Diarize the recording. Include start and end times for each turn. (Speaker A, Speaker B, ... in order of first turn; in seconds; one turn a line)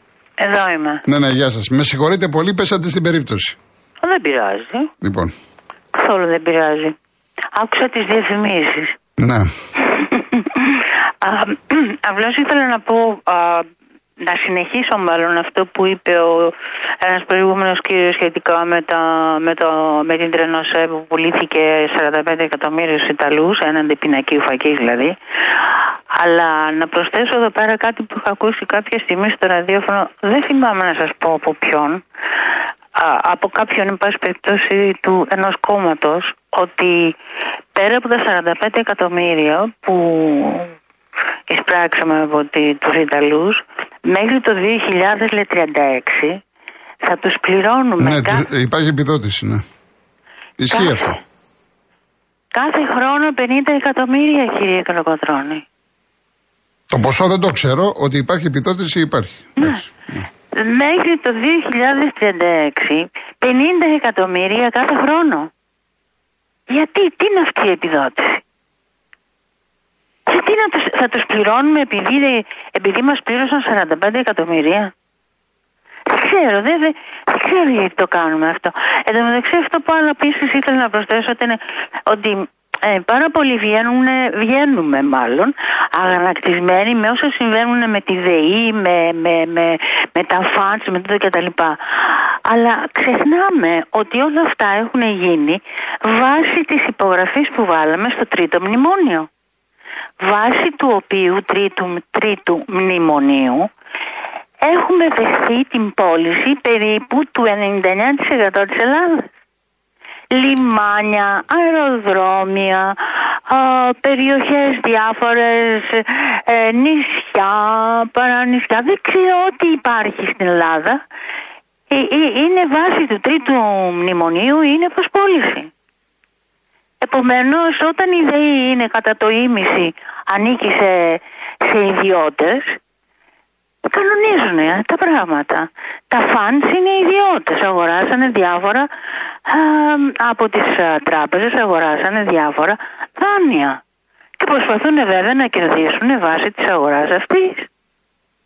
Speaker A: 0.4-1.0
Speaker B: 1.1-3.6
Speaker A: 4.0-4.9
Speaker B: 5.0-5.3
Speaker A: 5.9-7.0
Speaker A: 7.5-8.9
Speaker B: 9.2-9.5
Speaker A: 10.3-10.6
Speaker A: 11.2-13.7
Speaker A: 14.2-25.1
Speaker A: 26.1-32.0
Speaker A: 32.9-37.1
Speaker A: 37.7-40.7
Speaker A: 41.5-46.4
Speaker A: 47.0-48.5
Speaker B: 48.0-49.6
Speaker B: 50.6-51.2
Speaker A: 50.7-51.1
Speaker A: 52.5-55.6
Speaker B: 56.9-60.2
Speaker A: 60.5-65.5
Speaker A: 66.7-68.4
Speaker A: 70.3-74.9
Speaker A: 76.1-99.3
Speaker A: 100.2-103.7
Speaker A: 104.6-109.3
Speaker A: 110.3-121.0
Speaker A: 121.9-125.7
Speaker A: 127.0-132.8
Speaker A: 133.9-138.9
Speaker A: 139.4-143.8
Speaker A: 144.4-147.7